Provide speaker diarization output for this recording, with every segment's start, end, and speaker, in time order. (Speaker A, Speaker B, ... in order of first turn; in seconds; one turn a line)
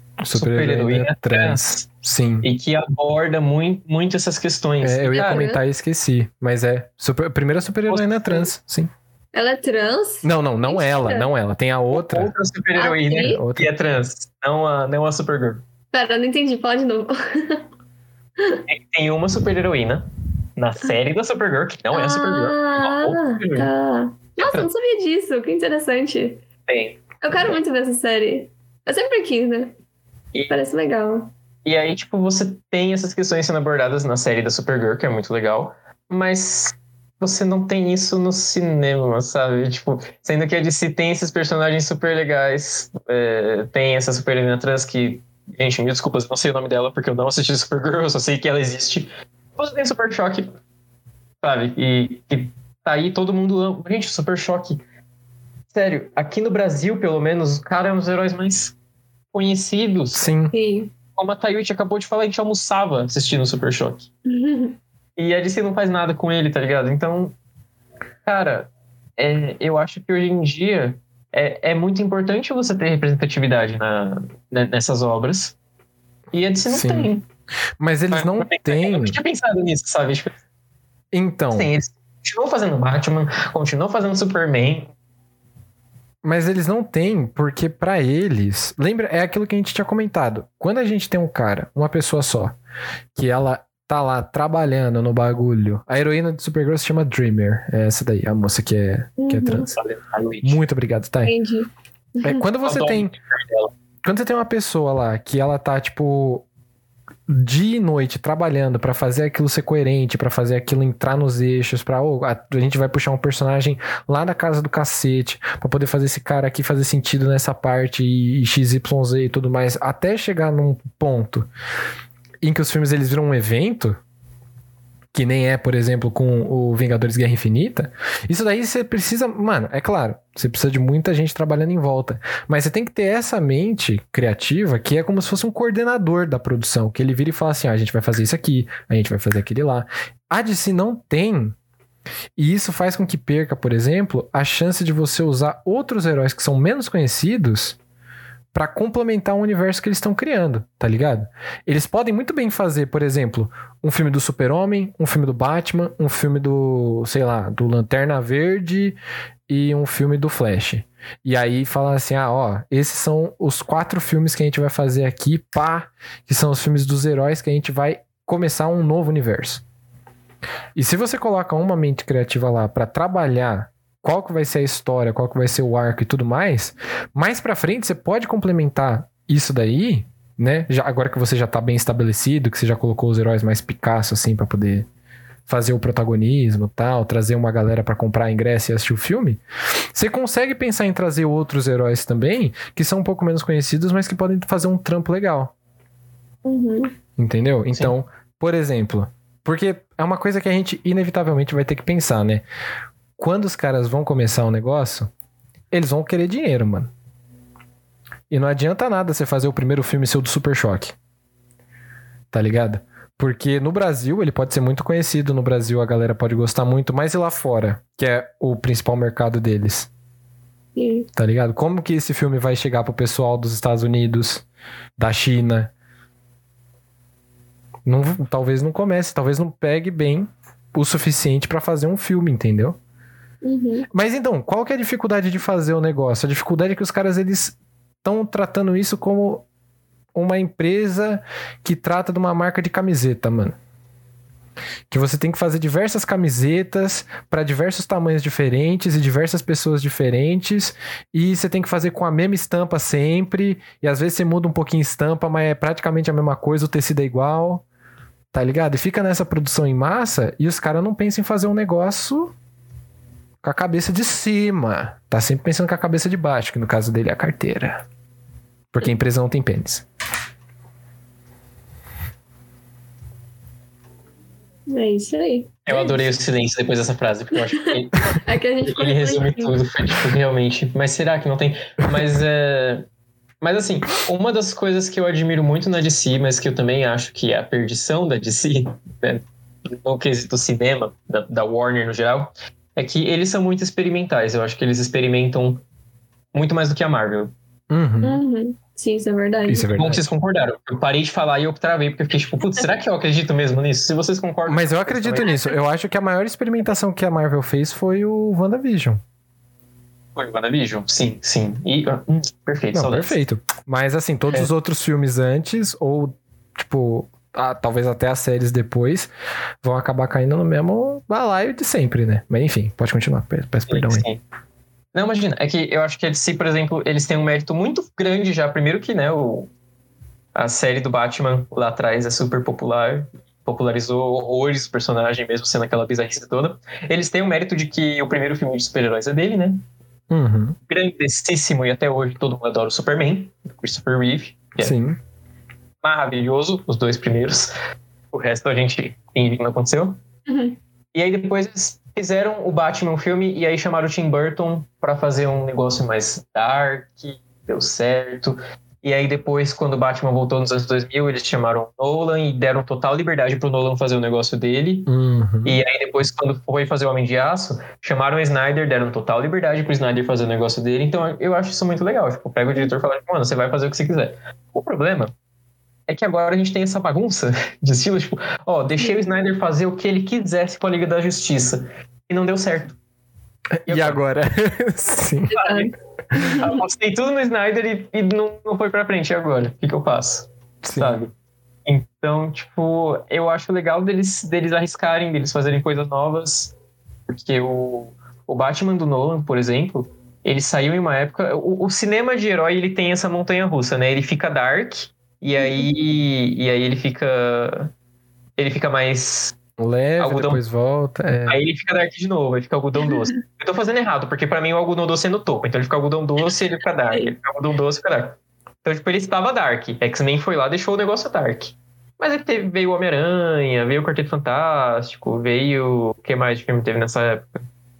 Speaker A: 0.2-2.5
Speaker B: 0.3-1.8
Speaker B: 2.4-5.5
Speaker A: 4.8-8.9
Speaker C: 5.1-5.6
Speaker B: 7.9-8.5
Speaker C: 9.3-11.3
Speaker A: 10.2-12.3
Speaker B: 11.9-15.6
Speaker C: 12.7-13.4
Speaker A: 13.2-13.7
Speaker C: 15.9-17.6
Speaker B: 18.7-23.7
Speaker C: 21.9-26.4
Speaker B: 24.4-24.7
Speaker B: 26.7-27.6
Speaker C: 27.2-29.8
Speaker C: 30.5-31.3
Speaker B: 31.6-50.5
Speaker B: 51.4-54.8
Speaker B: 55.7-58.7
Speaker B: 59.3-60.3
Speaker A: 60.1-60.5
Speaker C: 60.5-60.9
Speaker B: 61.2-64.1
Speaker C: 64.3-64.8
Speaker B: 65.2-67.3
Speaker B: 68.3-75.6
Speaker B: 76.3-77.2
Speaker A: 76.7-77.1
Speaker A: 77.8-79.2
Speaker B: 78.1-80.4
Speaker A: 81.1-81.7
Speaker B: 81.5-84.9
Speaker A: 86.2-92.5
Speaker A: 93.2-99.7
Speaker C: 99.2-99.7
Speaker B: 99.7-100.6
Speaker A: 100.4-101.3
Speaker C: 101.2-102.4
Speaker A: 102.2-103.1
Speaker B: 102.6-103.7
Speaker A: 104.0-106.5
Speaker A: 107.3-121.5
Speaker A: 122.4-124.0
Speaker A: 125.1-141.6
Speaker A: 142.4-147.8
Speaker A: 148.5-169.6
Speaker A: 170.7-184.9
Speaker A: 185.5-189.4
Speaker A: 189.9-195.5
Speaker C: 196.4-196.9
Speaker A: 197.2-202.4
Speaker A: 203.2-205.1
Speaker A: 205.7-206.9
Speaker A: 208.3-210.9
Speaker A: 212.3-219.9
Speaker C: 220.8-221.1
Speaker A: 221.2-224.4
Speaker A: 225.0-225.7
Speaker A: 227.9-232.8
Speaker C: 233.4-233.9
Speaker A: 233.9-239.4
Speaker A: 240.1-243.6
Speaker A: 244.9-257.6
Speaker A: 258.3-262.3
Speaker A: 263.4-267.9
Speaker A: 268.7-269.9
Speaker C: 274.7-276.1
Speaker B: 275.7-282.9
Speaker C: 277.5-279.6
Speaker B: 283.4-295.6
Speaker B: 296.3-297.3
Speaker A: 297.7-298.2
Speaker C: 298.0-299.7
Speaker A: 299.5-300.1
Speaker B: 299.7-305.4
Speaker A: 304.5-309.0
Speaker B: 310.2-313.2
Speaker A: 312.7-319.1
Speaker A: 319.6-324.1
Speaker B: 323.7-324.2
Speaker B: 324.9-329.5
Speaker B: 330.4-339.6
Speaker A: 340.1-340.6
Speaker B: 340.7-344.7
Speaker A: 344.6-345.0
Speaker B: 345.8-347.5
Speaker B: 348.1-350.0
Speaker C: 350.3-350.6
Speaker B: 350.9-364.9
Speaker A: 364.9-365.6
Speaker B: 365.4-375.1
Speaker B: 375.9-382.8
Speaker A: 383.6-385.3
Speaker B: 383.7-384.0
Speaker C: 385.3-386.6
Speaker B: 385.3-385.7
Speaker B: 386.3-391.1
Speaker A: 390.6-391.0
Speaker B: 391.7-396.6
Speaker B: 397.1-407.7
Speaker C: 405.4-405.7
Speaker B: 408.4-409.4
Speaker A: 409.6-411.4
Speaker B: 410.0-410.4
Speaker B: 411.3-427.4